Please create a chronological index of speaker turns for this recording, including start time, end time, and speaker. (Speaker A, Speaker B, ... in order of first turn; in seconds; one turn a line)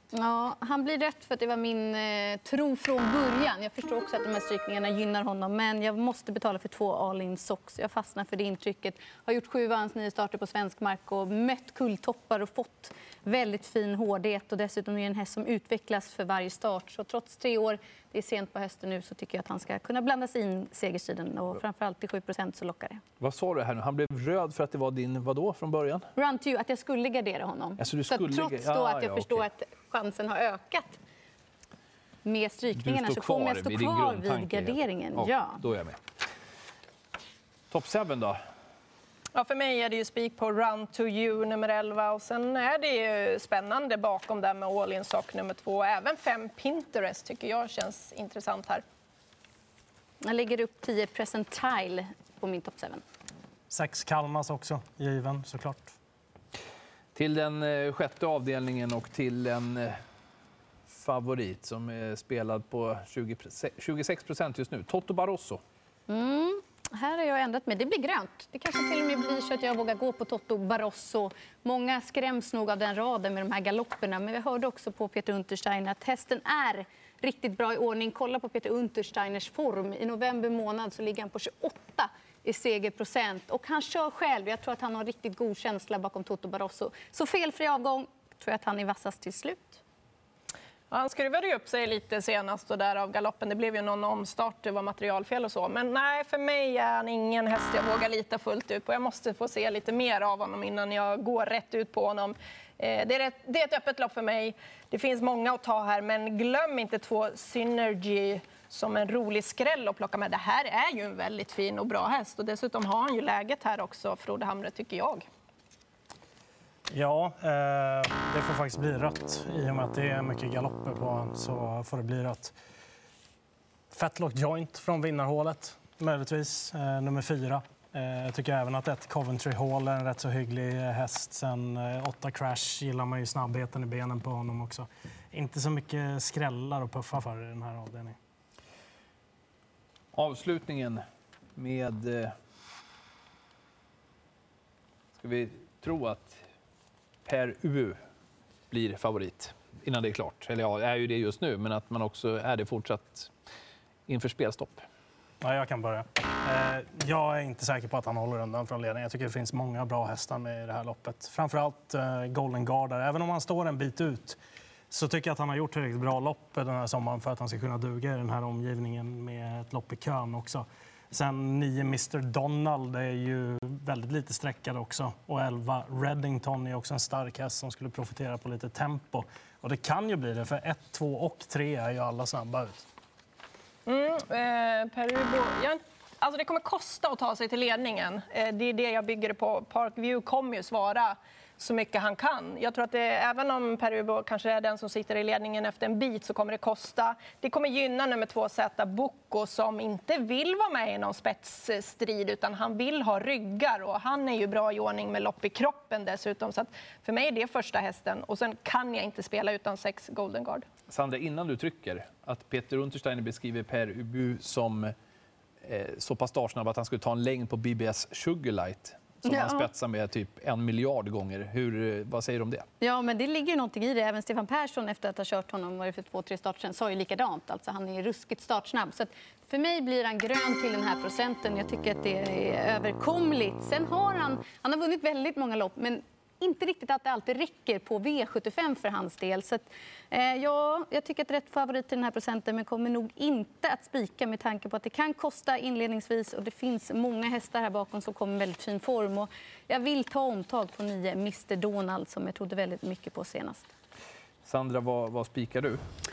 Speaker A: 0.1-23.0
Speaker B: 23.2-26.1
Speaker A: 26.1-31.0
Speaker B: 27.8-29.4
Speaker A: 32.2-35.6
Speaker B: 32.8-36.0
Speaker B: 37.7-38.4
Speaker C: 39.3-48.8
Speaker A: 50.2-53.0
Speaker D: 53.7-55.9
Speaker B: 57.1-60.0
Speaker B: 60.9-65.6
Speaker A: 66.1-89.8
Speaker C: 90.9-115.2
Speaker D: 116.9-122.5
Speaker D: 123.9-138.2
Speaker B: 140.1-141.0
Speaker B: 141.6-142.3
Speaker B: 145.1-146.4
Speaker B: 147.2-148.0
Speaker B: 148.7-153.3
Speaker B: 154.1-154.8
Speaker D: 155.4-164.4
Speaker D: 164.9-182.8
Speaker C: 183.8-210.7
Speaker B: 210.9-214.9
Speaker B: 215.6-222.7
Speaker A: 219.2-219.7
Speaker A: 222.8-253.7
Speaker B: 254.4-255.8